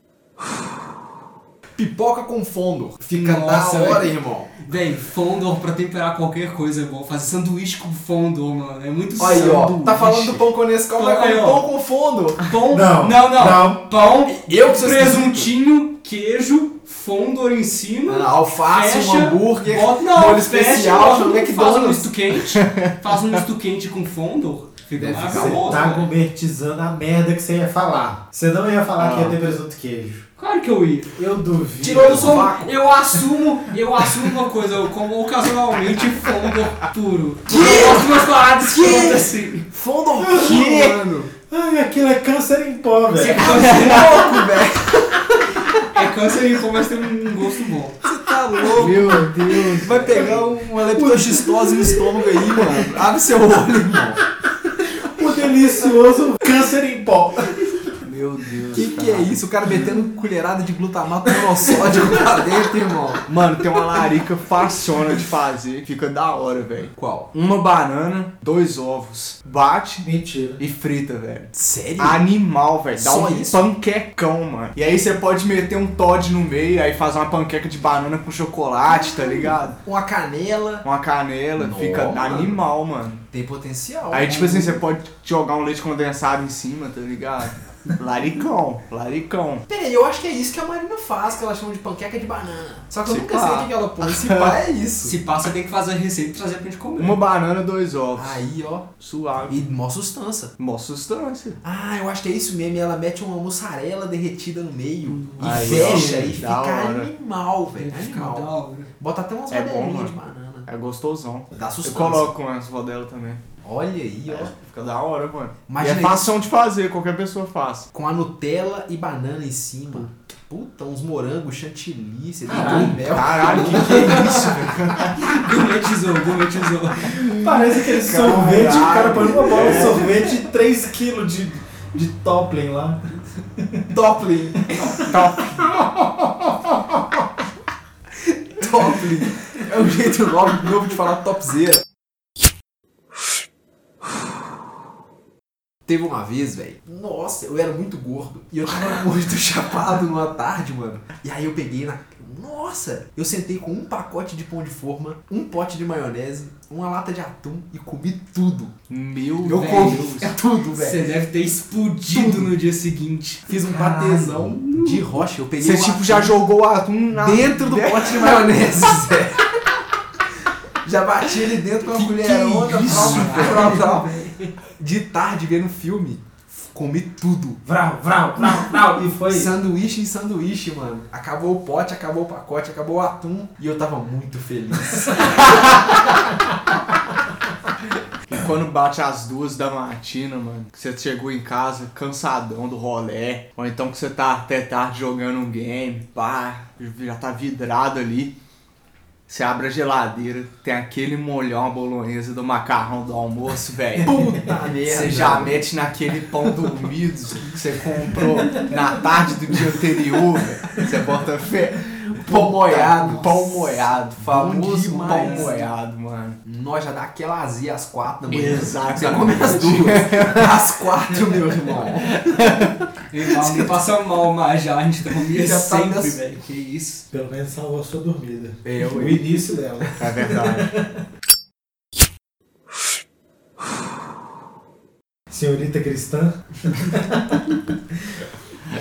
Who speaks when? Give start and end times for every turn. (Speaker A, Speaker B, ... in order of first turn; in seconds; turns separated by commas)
Speaker A: 1.8-4.5, Speaker B: 3.1-9.8, Speaker A: 9.2-12.4, Speaker C: 9.2-10.4, Speaker B: 10.9-11.6, Speaker B: 12.4-26.0, Speaker D: 12.7-13.9, Speaker A: 14.3-15.5, Speaker A: 18.1-22.1, Speaker A: 24.9-26.0, Speaker D: 25.2-30.2, Speaker C: 29.0-29.4, Speaker B: 30.4-31.1, Speaker D: 31.1-32.5, Speaker A: 31.8-32.7, Speaker B: 31.9-39.7, Speaker A: 37.5-41.3, Speaker D: 40.2-41.0, Speaker D: 41.5-43.6, Speaker B: 43.1-44.3, Speaker A: 43.3-45.8, Speaker C: 43.7-44.1, Speaker B: 45.8-48.0, Speaker A: 48.0-54.2, Speaker C: 48.7-50.5, Speaker D: 50.1-52.8, Speaker D: 55.0-57.7, Speaker C: 58.0-59.4, Speaker A: 58.7-63.2, Speaker C: 63.2-79.8, Speaker A: 67.0-67.3, Speaker D: 70.0-70.6, Speaker A: 71.5-72.2, Speaker A: 72.9-73.7, Speaker A: 79.8-80.8, Speaker C: 80.8-83.2, Speaker A: 81.5-82.6, Speaker A: 83.3-84.8, Speaker C: 84.1-89.6, Speaker A: 89.7-95.2, Speaker C: 93.0-94.5, Speaker B: 95.0-97.2, Speaker C: 97.0-98.4, Speaker A: 98.1-98.9, Speaker C: 99.0-99.7, Speaker A: 99.5-100.5, Speaker C: 100.6-101.6, Speaker A: 101.6-110.7, Speaker B: 105.0-105.9, Speaker C: 105.4-107.1, Speaker B: 107.7-108.9, Speaker C: 109.5-113.4, Speaker A: 111.5-112.3, Speaker A: 113.6-114.5, Speaker C: 114.3-117.9, Speaker A: 115.7-116.3, Speaker A: 117.9-124.7, Speaker D: 122.5-124.1, Speaker B: 122.8-124.5, Speaker C: 123.0-125.1, Speaker B: 125.2-127.1, Speaker D: 127.0-133.0, Speaker C: 127.1-130.1, Speaker D: 133.6-133.8, Speaker A: 133.9-135.1, Speaker C: 135.0-135.8, Speaker D: 135.8-137.0, Speaker A: 138.2-141.8, Speaker A: 145.8-158.7, Speaker C: 158.9-160.3, Speaker B: 159.4-165.1, Speaker A: 159.5-161.0, Speaker A: 162.1-162.5, Speaker A: 163.5-166.4, Speaker C: 165.6-168.9, Speaker A: 167.1-169.5, Speaker A: 170.8-174.1, Speaker C: 171.8-173.9, Speaker B: 172.8-174.5, Speaker A: 174.8-177.6, Speaker D: 177.6-179.5, Speaker A: 179.3-185.9, Speaker C: 188.2-198.3, Speaker C: 199.3-204.3, Speaker A: 204.0-205.7, Speaker C: 204.8-216.4, Speaker A: 212.2-215.6, Speaker B: 215.0-215.7, Speaker A: 216.4-222.4, Speaker C: 218.3-220.6, Speaker C: 222.0-222.8, Speaker B: 223.1-227.0, Speaker A: 225.3-226.2, Speaker D: 227.1-231.0, Speaker A: 228.6-229.5, Speaker C: 230.0-230.7, Speaker D: 235.3-238.2